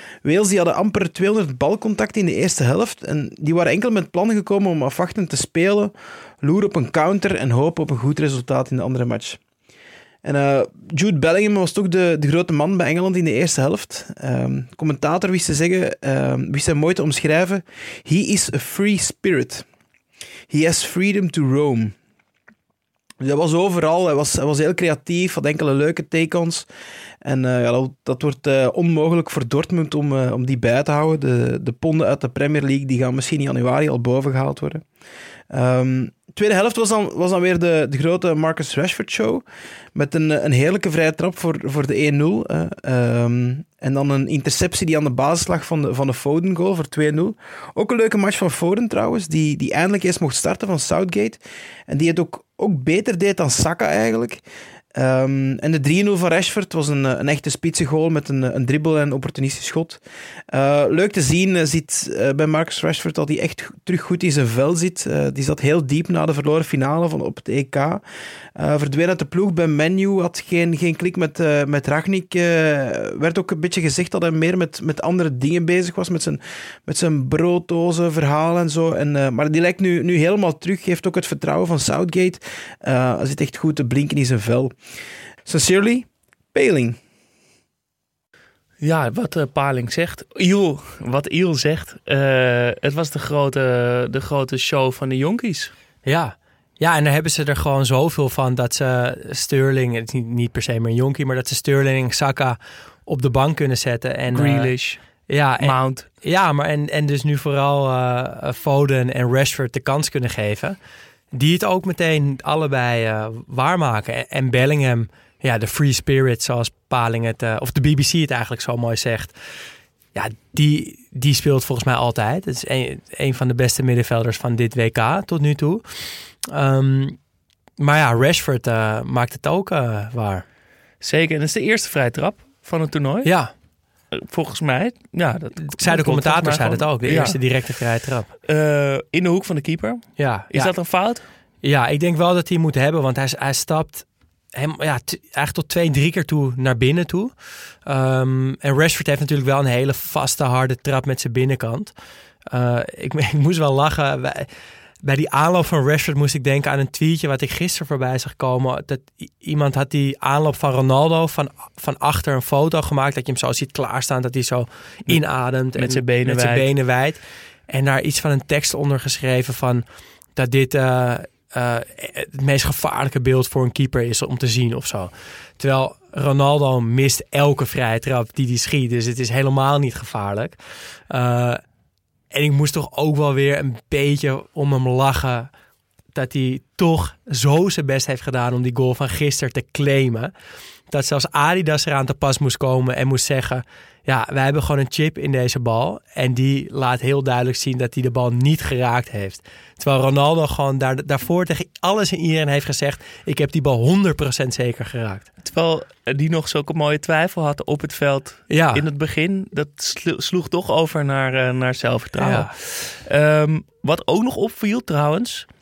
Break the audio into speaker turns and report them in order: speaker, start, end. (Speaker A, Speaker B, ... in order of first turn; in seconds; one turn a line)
Speaker A: 0.2-9.4
Speaker A: 10.2-19.6
Speaker A: 20.5-22.0
Speaker A: 23.2-26.6
Speaker A: 27.2-34.9
Speaker A: 35.5-39.4
Speaker A: 39.9-54.4
Speaker A: 54.9-60.0
Speaker A: 60.5-68.0
Speaker A: 68.5-84.8
Speaker A: 85.4-87.0
Speaker B: 88.8-95.7
Speaker C: 96.0-104.7
Speaker B: 104.3-105.0
Speaker C: 105.3-110.8
Speaker B: 105.6-106.1
Speaker C: 111.3-119.4
Speaker C: 120.1-127.2
Speaker C: 127.8-130.4
Speaker B: 131.0-133.3
Speaker C: 133.2-133.5
Speaker B: 134.1-137.4
Speaker C: 135.6-138.3
Speaker B: 138.4-141.2
Speaker C: 140.2-140.7
Speaker C: 141.6-147.3
Speaker C: 147.8-151.9
Speaker C: 152.5-154.5
Speaker C: 155.0-169.8
Speaker B: 165.8-166.7
Speaker C: 170.4-180.6
Speaker C: 181.1-181.6
Speaker C: 182.3-185.5
Speaker C: 186.1-190.3
Speaker C: 190.9-205.3
Speaker B: 205.4-215.5
Speaker C: 208.5-208.8
Speaker C: 212.2-212.5